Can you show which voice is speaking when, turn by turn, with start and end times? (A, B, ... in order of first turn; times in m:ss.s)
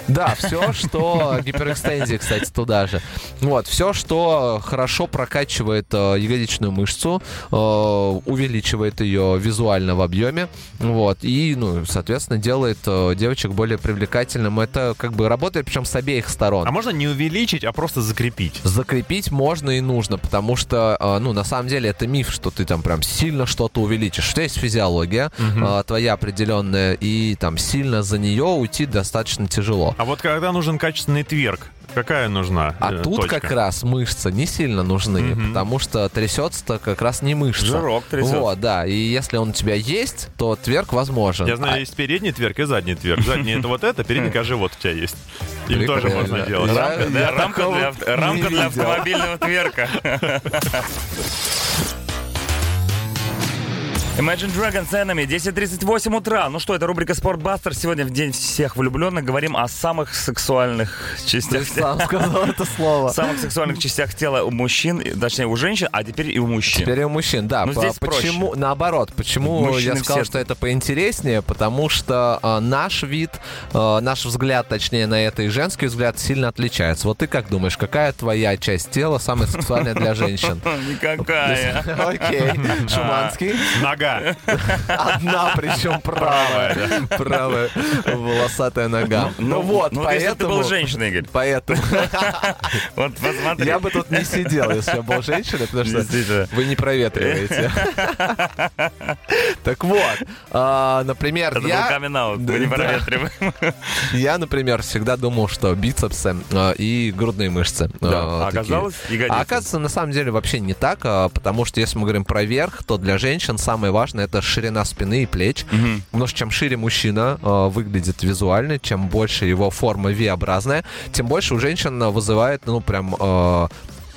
0:00.1-0:16.7 A
0:16.6-0:18.6 B
0:18.6-0:30.0 A
0:25.4-0:25.8 B
0:30.0-0:33.5 B
0:32.8-0:41.8 A
0:35.2-0:35.6 B
0:37.6-0:38.5 C
0:41.4-0:47.1 B
0:45.7-0:49.5 A
0:46.1-0:50.8 C
0:54.2-1:02.3 C
1:01.5-1:03.4 A
1:03.1-1:06.9 C
1:06.7-1:23.8 A
1:07.6-1:08.5 C
1:09.4-1:10.4 C
1:19.8-1:25.0 C
1:22.6-1:22.9 B
1:23.7-1:24.3 B
1:24.4-1:32.8 A
1:26.2-1:27.2 B
1:29.2-1:34.9 C
1:33.4-1:38.4 A
1:35.8-1:36.5 C
1:37.1-1:39.2 C
1:39.3-1:43.1 A
1:41.5-1:44.1 C
1:44.1-2:03.7 A
1:48.0-1:49.7 C
1:55.7-1:56.0 C